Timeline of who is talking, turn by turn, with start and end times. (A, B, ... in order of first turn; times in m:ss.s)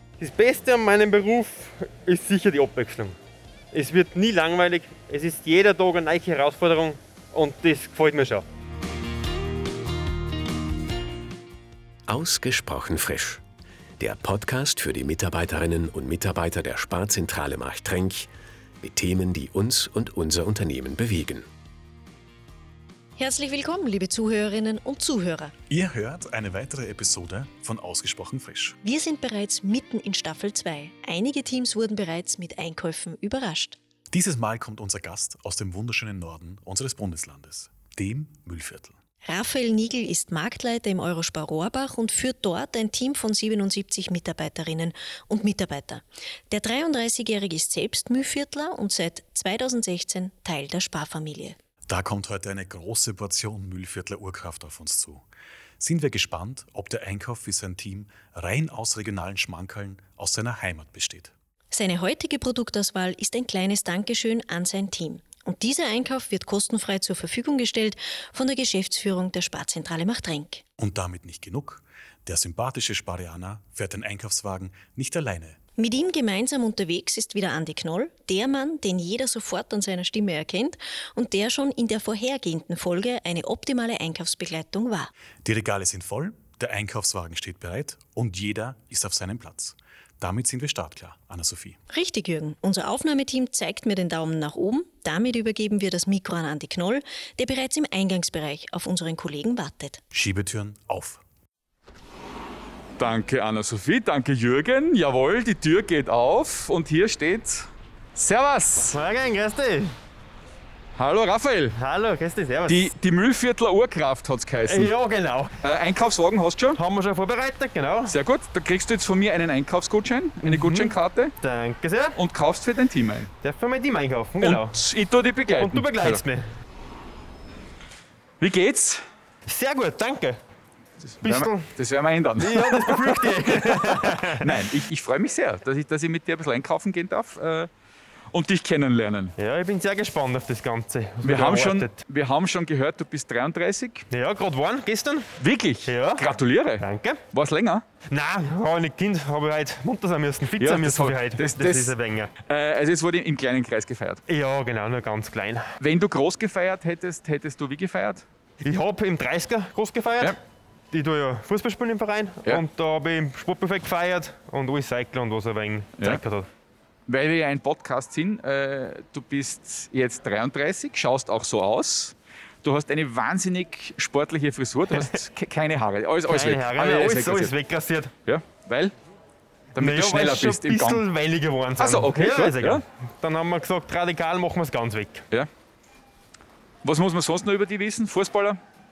0:00.2-0:03.2 A
0:03.7-0:08.4 A
0:12.1-0:13.4 B
0:14.0-0:18.3 B
0:18.8-0:21.5 B
0:23.2-0:25.5 C
0:25.7-0:28.8 D
0:28.8-0:33.8 C
0:34.1-0:39.0 D
0:39.2-0:51.6 C
0:51.9-0:55.2 D
0:55.8-1:01.3 D
1:01.7-1:10.6 C
1:10.8-1:15.6 D
1:15.8-1:25.1 C
1:25.4-1:31.8 D
1:31.9-1:40.0 C
1:40.1-1:41.2 D
1:43.0-1:49.0 E
1:48.9-1:50.0 A
1:51.0-1:51.8 E
1:51.8-1:52.9 A
1:52.7-1:54.9 E
1:54.7-1:55.6 A
1:55.6-1:56.8 E
1:56.8-1:58.2 A
1:58.1-2:01.4 E
2:00.4-2:02.2 A
2:02.2-2:03.3 E
2:03.4-2:04.8 A
2:04.4-2:06.2 E
2:05.5-2:06.5 A
2:08.4-2:09.0 E
2:09.5-2:10.4 A
2:11.0-2:17.7 E
2:11.2-2:11.7 A
2:12.4-2:14.6 A
2:18.3-2:19.4 E
2:19.4-2:22.0 A
2:21.2-2:24.1 E
2:24.1-2:25.3 A
2:25.4-2:27.8 E
2:25.9-2:26.3 A
2:26.8-2:27.2 A
2:28.1-2:32.3 A
2:30.6-2:34.2 E
2:34.3-2:35.7 A
2:35.8-2:38.2 E
2:38.6-2:40.4 A
2:40.9-2:46.5 A
2:47.1-2:57.5 E
2:56.3-2:58.1 A
2:58.3-2:58.9 E
2:59.8-3:01.0 E
2:59.8-3:05.3 A
3:01.8-3:02.8 E
3:06.8-3:08.6 E